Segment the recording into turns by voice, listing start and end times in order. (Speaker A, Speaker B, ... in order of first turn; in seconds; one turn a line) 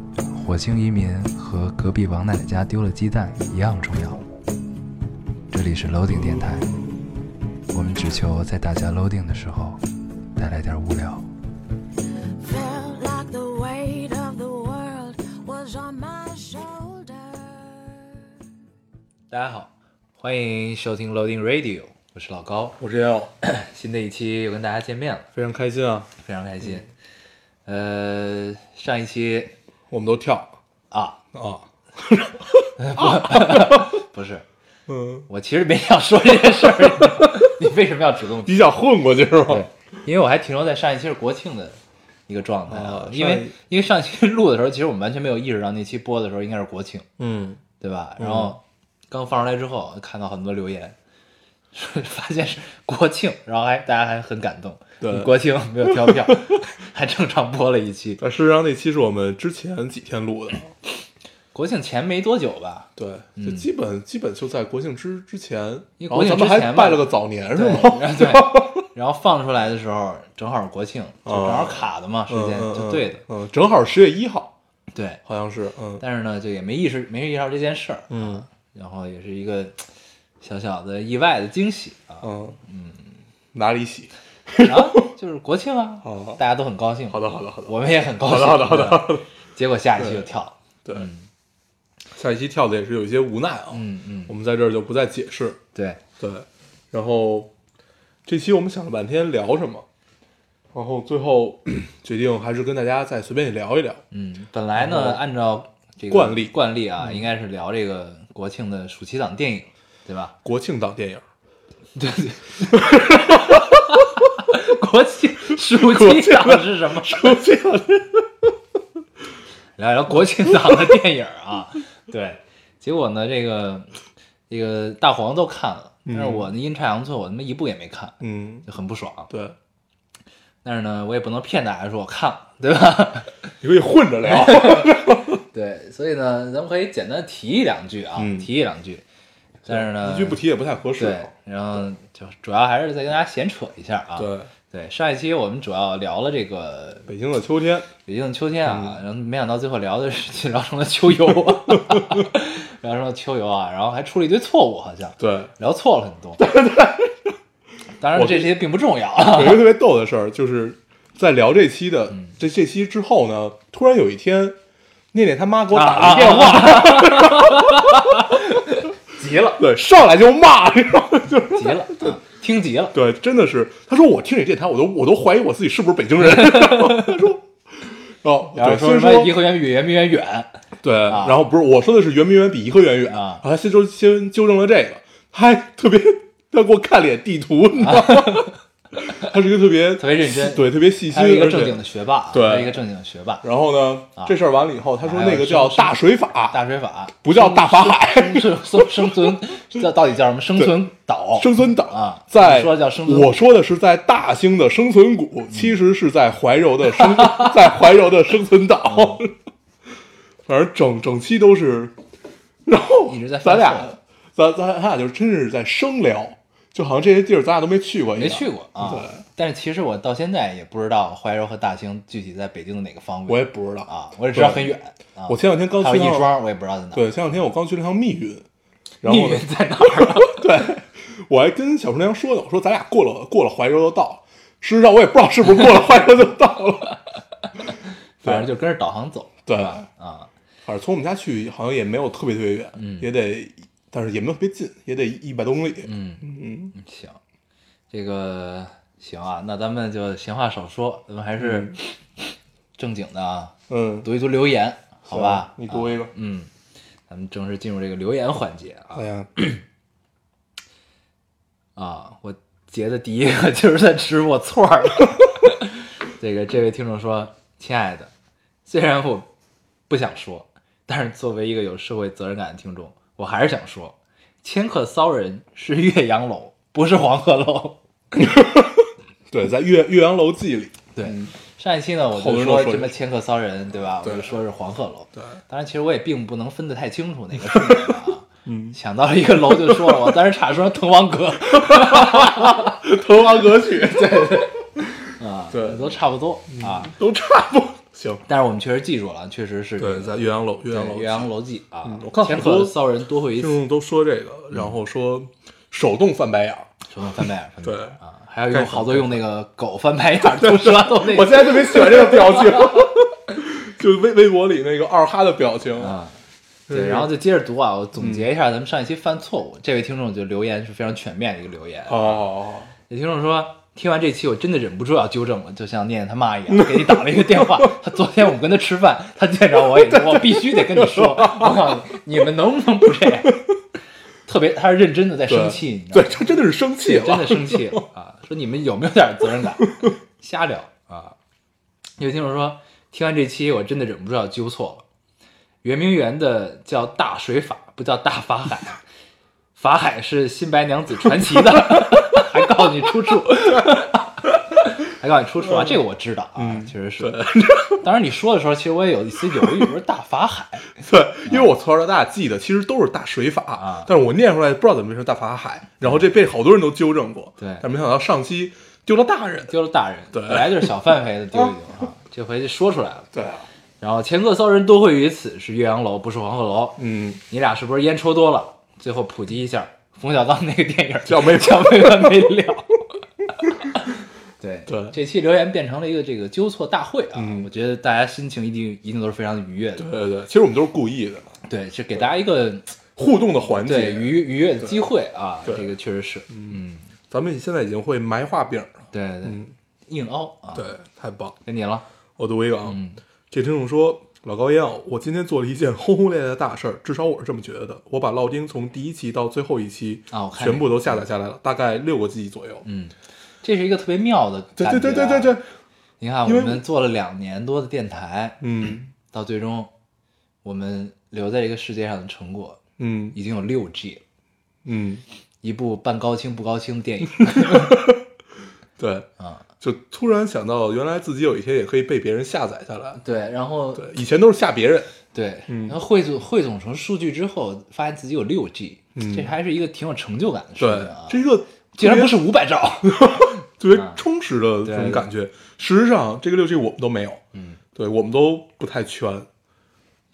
Speaker A: 0.3-4.2
Speaker A: 5.5-6.8
Speaker A: 7.7-9.8
Speaker A: 10.3-11.3
Speaker B: 12.4-18.2
Speaker A: 19.3-22.8
Speaker C: 22.8-23.3
Speaker A: 23.4-25.3
Speaker C: 25.3-26.1
Speaker A: 26.2-26.9
Speaker A: 27.6-29.5
Speaker C: 29.9-30.6
Speaker A: 30.9-31.2
Speaker C: 31.3-33.9
Speaker A: 32.8-34.4
Speaker C: 34.9-35.3
Speaker A: 35.3-38.7
Speaker C: 36.6-37.5
Speaker C: 38.4-39.6
Speaker A: 39.5-47.1
Speaker C: 42.7-43.5
Speaker C: 47.2-47.6
Speaker A: 47.8-51.0
Speaker C: 48.2-48.5
Speaker A: 51.7-58.2
Speaker C: 55.0-55.3
Speaker C: 55.8-56.5
Speaker C: 58.2-60.7
Speaker A: 61.5-63.7
Speaker C: 63.0-68.8
Speaker A: 66.0-73.2
Speaker C: 71.2-74.5
Speaker A: 74.9-75.2
Speaker C: 75.2-76.0
Speaker A: 76.0-79.8
Speaker C: 78.1-78.5
Speaker A: 80.4-83.1
Speaker C: 82.2-82.6
Speaker C: 83.5-85.1
Speaker A: 84.6-91.3
Speaker C: 86.0-86.4
Speaker C: 87.1-89.3
Speaker C: 90.0-90.3
Speaker C: 90.8-91.1
Speaker C: 92.1-95.6
Speaker A: 93.7-94.3
Speaker A: 95.7-96.0
Speaker C: 96.2-97.5
Speaker C: 98.2-99.8
Speaker C: 100.7-104.0
Speaker A: 104.1-110.3
Speaker C: 104.8-105.2
Speaker C: 106.1-107.2
Speaker C: 110.4-111.2
Speaker A: 111.9-117.4
Speaker C: 112.7-113.8
Speaker C: 115.5-118.5
Speaker A: 119.8-124.0
Speaker C: 120.4-121.0
Speaker A: 124.5-129.3
Speaker C: 126.0-126.5
Speaker C: 128.2-128.7
Speaker C: 129.3-129.6
Speaker A: 130.6-133.4
Speaker C: 133.6-135.4
Speaker A: 134.3-139.0
Speaker C: 138.2-138.5
Speaker A: 139.7-140.4
Speaker C: 139.7-141.3
Speaker A: 141.0-147.1
Speaker C: 144.2-144.5
Speaker C: 147.1-147.9
Speaker A: 148.1-156.4
Speaker C: 148.6-149.0
Speaker C: 151.7-152.2
Speaker C: 155.2-155.5
Speaker C: 156.4-157.3
Speaker A: 158.0-159.7
Speaker C: 158.1-158.5
Speaker C: 159.3-164.6
Speaker C: 165.1-168.4
Speaker A: 165.7-169.6
Speaker C: 169.6-172.2
Speaker A: 171.5-172.9
Speaker C: 172.9-179.3
Speaker A: 176.2-177.2
Speaker A: 178.5-181.4
Speaker C: 180.8-191.8
Speaker A: 183.1-183.4
Speaker A: 187.8-188.5
Speaker A: 190.0-193.4
Speaker C: 192.3-192.8
Speaker C: 193.4-196.6
Speaker A: 195.0-196.0
Speaker A: 196.5-203.3
Speaker C: 197.2-199.3
Speaker C: 201.3-209.3
Speaker A: 208.9-209.2
Speaker C: 210.4-211.9
Speaker C: 212.6-219.2
Speaker A: 213.1-214.0
Speaker A: 218.1-227.0
Speaker C: 223.3-224.7
Speaker C: 225.3-226.3
Speaker C: 226.9-228.4
Speaker C: 229.0-237.0
Speaker A: 229.0-230.4
Speaker A: 237.7-240.3
Speaker C: 238.2-238.5
Speaker C: 239.5-239.8
Speaker C: 240.6-246.7
Speaker A: 242.8-243.1
Speaker A: 245.8-247.2
Speaker A: 247.9-251.9
Speaker C: 251.4-251.8
Speaker A: 252.8-256.5
Speaker C: 253.7-254.1
Speaker C: 255.1-256.1
Speaker A: 257.1-259.6
Speaker C: 258.9-259.3
Speaker A: 261.8-268.1
Speaker A: 268.6-269.3
Speaker A: 269.9-278.3
Speaker C: 278.1-281.3
Speaker A: 280.9-292.8
Speaker C: 282.1-282.9
Speaker C: 284.0-284.4
Speaker C: 287.4-288.8
Speaker C: 289.4-290.1
Speaker C: 291.5-294.8
Speaker A: 293.6-296.9
Speaker C: 295.5-295.9
Speaker C: 296.5-298.2
Speaker A: 298.3-303.6
Speaker C: 299.8-301.3
Speaker C: 301.8-302.8
Speaker C: 303.4-307.9
Speaker A: 306.9-312.8
Speaker C: 308.5-309.2
Speaker C: 310.2-316.0
Speaker A: 315.8-316.2
Speaker C: 316.7-317.1
Speaker A: 316.7-322.2
Speaker C: 318.0-318.2
Speaker C: 321.9-322.7
Speaker A: 322.9-333.4
Speaker C: 326.5-327.7
Speaker C: 329.6-332.0
Speaker C: 333.0-333.5
Speaker A: 334.2-336.2
Speaker C: 335.3-337.8
Speaker A: 336.8-341.1
Speaker C: 339.6-339.9
Speaker A: 342.0-344.9
Speaker A: 345.6-348.8
Speaker A: 349.5-357.2
Speaker C: 351.1-351.9
Speaker C: 355.4-355.8
Speaker C: 356.4-357.8
Speaker A: 357.8-361.5
Speaker C: 359.2-359.7
Speaker C: 360.8-369.5
Speaker A: 363.6-363.9
Speaker A: 367.4-367.6
Speaker A: 369.5-373.1
Speaker C: 370.1-370.7
Speaker C: 373.1-373.4
Speaker A: 373.8-389.9
Speaker C: 376.8-377.2
Speaker C: 381.1-382.3
Speaker C: 384.7-384.9
Speaker C: 387.1-387.5
Speaker C: 389.8-391.3
Speaker A: 391.5-392.8
Speaker C: 392.9-394.8
Speaker A: 393.6-396.9
Speaker C: 395.4-395.7
Speaker C: 396.3-396.6
Speaker C: 397.1-399.5
Speaker A: 398.9-400.7
Speaker C: 400.5-401.4
Speaker A: 401.4-401.8
Speaker C: 402.2-412.6
Speaker A: 402.6-403.0
Speaker A: 410.1-411.0
Speaker A: 412.6-415.4
Speaker C: 414.6-415.4
Speaker A: 416.0-418.4
Speaker C: 416.2-416.6
Speaker C: 418.4-418.9
Speaker A: 419.1-419.7
Speaker A: 420.4-422.6
Speaker C: 422.8-423.2
Speaker A: 423.1-424.0
Speaker C: 424.6-425.0
Speaker A: 425.4-427.8
Speaker C: 427.2-428.0
Speaker C: 428.8-429.1
Speaker A: 429.2-429.4
Speaker C: 429.6-433.0
Speaker A: 432.9-433.9
Speaker C: 433.8-434.9
Speaker A: 435.1-441.2
Speaker C: 435.5-435.8
Speaker C: 438.9-439.3
Speaker C: 440.6-442.2
Speaker A: 441.8-444.0
Speaker C: 442.8-447.2
Speaker A: 444.6-445.1
Speaker A: 447.3-447.6
Speaker C: 447.7-449.3